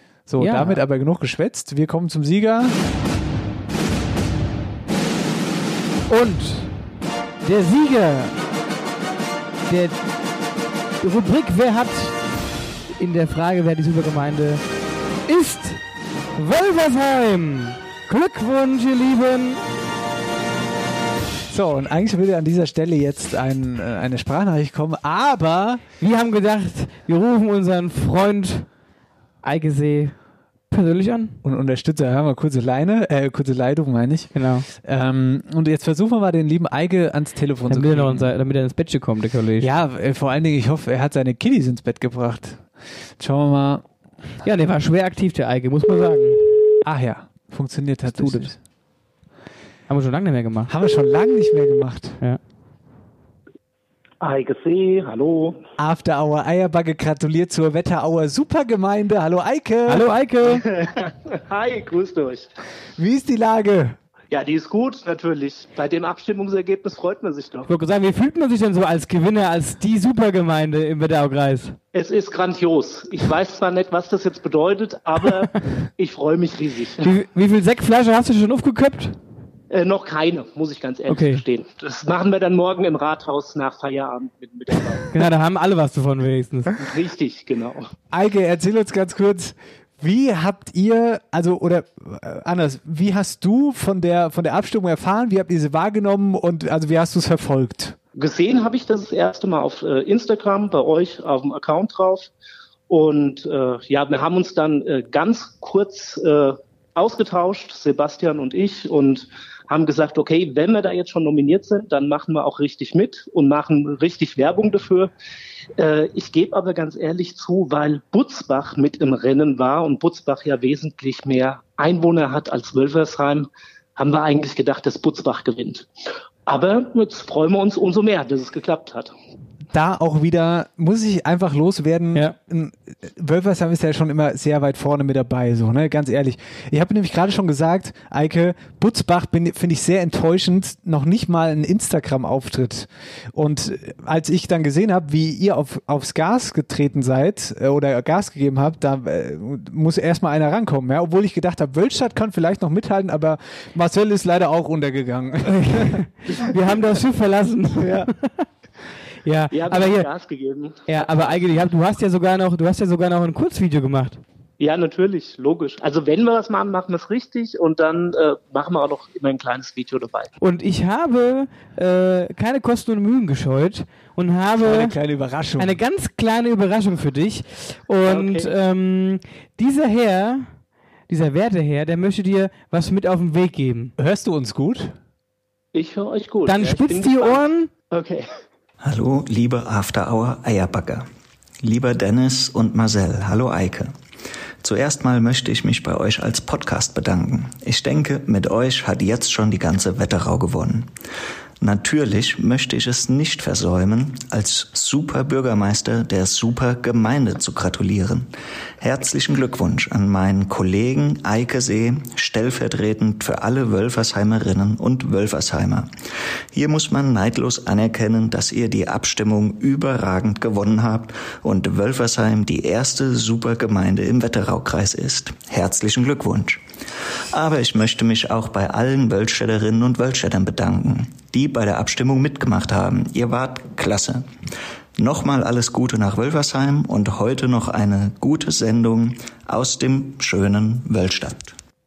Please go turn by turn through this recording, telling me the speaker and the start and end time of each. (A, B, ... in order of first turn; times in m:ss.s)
0:00.3-0:02.8 A
0:00.4-0:00.8 B
0:06.1-0:06.7 B
0:07.4-0:08.4 B
0:09.7-0:10.0 B
0:11.0-0:12.2 B
0:13.0-0:14.6 B
0:15.2-0:15.8 B
0:16.3-0:19.6 B
0:21.5-0:25.8 A
0:26.0-0:28.7 B
0:29.4-0:30.1 B
0:30.7-0:31.4 B
0:31.4-0:38.3 A
0:34.3-0:34.7 B
0:37.7-0:39.7 B
0:39.6-0:43.8 A
0:44.4-0:46.6 B
0:46.8-0:48.6 A
0:48.1-0:48.5 B
0:49.9-0:50.7 B
0:50.7-0:52.2 A
0:54.2-0:55.6 C
0:55.8-1:00.0 A
0:59.9-1:00.6 B
1:00.5-1:02.5 C
1:03.0-1:04.0 A
1:04.3-1:07.7 C
1:07.7-1:11.8 B
1:11.9-1:17.1 C
1:17.0-1:19.2 B
1:19.7-1:25.1 C
1:21.1-1:21.4 B
1:25.1-1:26.8 B
1:26.8-1:27.8 C
1:28.1-1:38.0 A
1:38.2-1:42.3 C
1:42.9-1:55.1 C
1:55.8-2:05.9 C
2:06.5-2:09.1 C
2:09.7-2:36.0 A
2:35.5-2:38.4 B
2:37.8-2:38.1 A
2:39.2-2:40.1 B
2:39.5-2:41.4 C
2:40.9-2:44.2 B
2:44.6-2:50.3 C
2:50.4-2:55.0 B
2:54.6-2:55.8 A
2:55.6-3:00.5 B
2:58.1-2:58.5 C
3:01.1-3:03.9 B
3:04.0-3:04.9 A
3:05.7-3:08.3 C
3:06.4-3:07.7 B
3:08.8-3:11.1 D
3:11.6-3:13.9 D
3:14.6-3:20.9 D
3:21.6-3:28.3 D
3:28.8-3:35.9 D
3:36.5-3:46.6 D
3:47.3-3:54.2 D
3:55.0-4:01.5 D